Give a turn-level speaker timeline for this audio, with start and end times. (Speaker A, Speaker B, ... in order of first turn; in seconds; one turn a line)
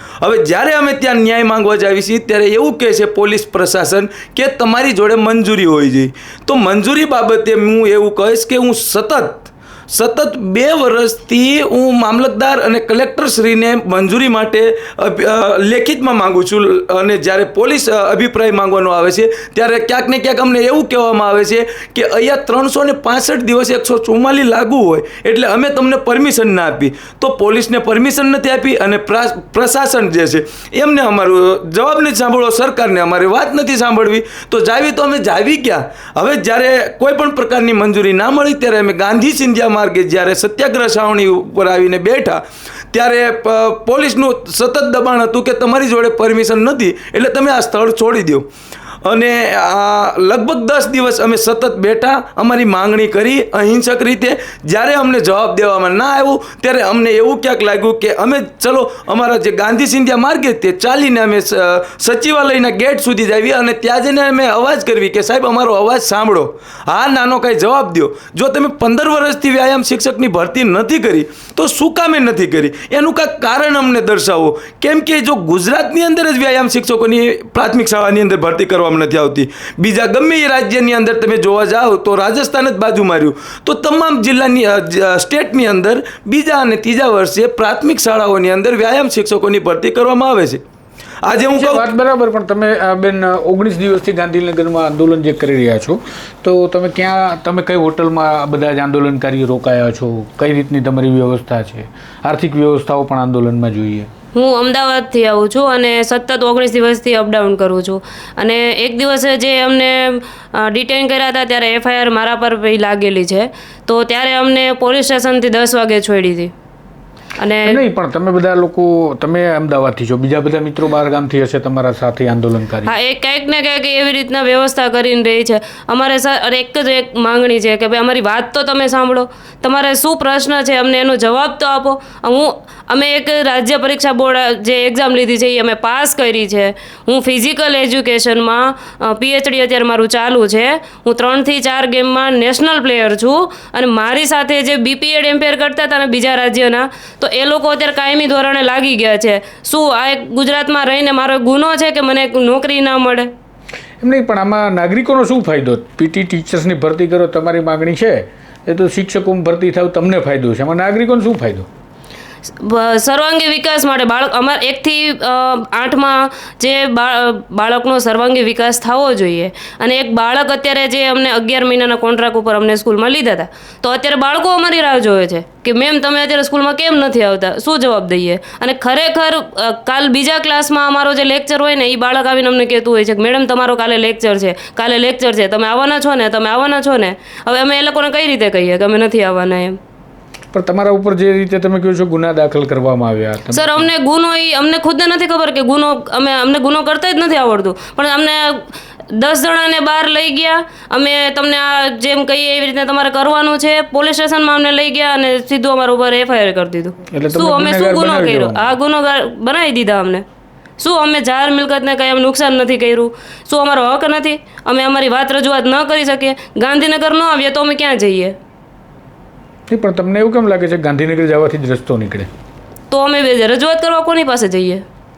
Speaker A: 0.2-48.5
Speaker A: 49.0-90.6
Speaker A: 91.2-91.9
Speaker B: 91.5-104.1
Speaker C: 104.3-116.5
Speaker C: 117.4-117.8
Speaker B: 117.6-123.0
Speaker C: 122.8-153.3
Speaker B: 154.0-161.7
Speaker C: 162.6-189.8
Speaker B: 190.5-193.9
Speaker C: 193.5-210.2
Speaker B: 207.1-208.8
Speaker C: 210.8-218.3
Speaker B: 219.7-222.3
Speaker C: 222.9-224.8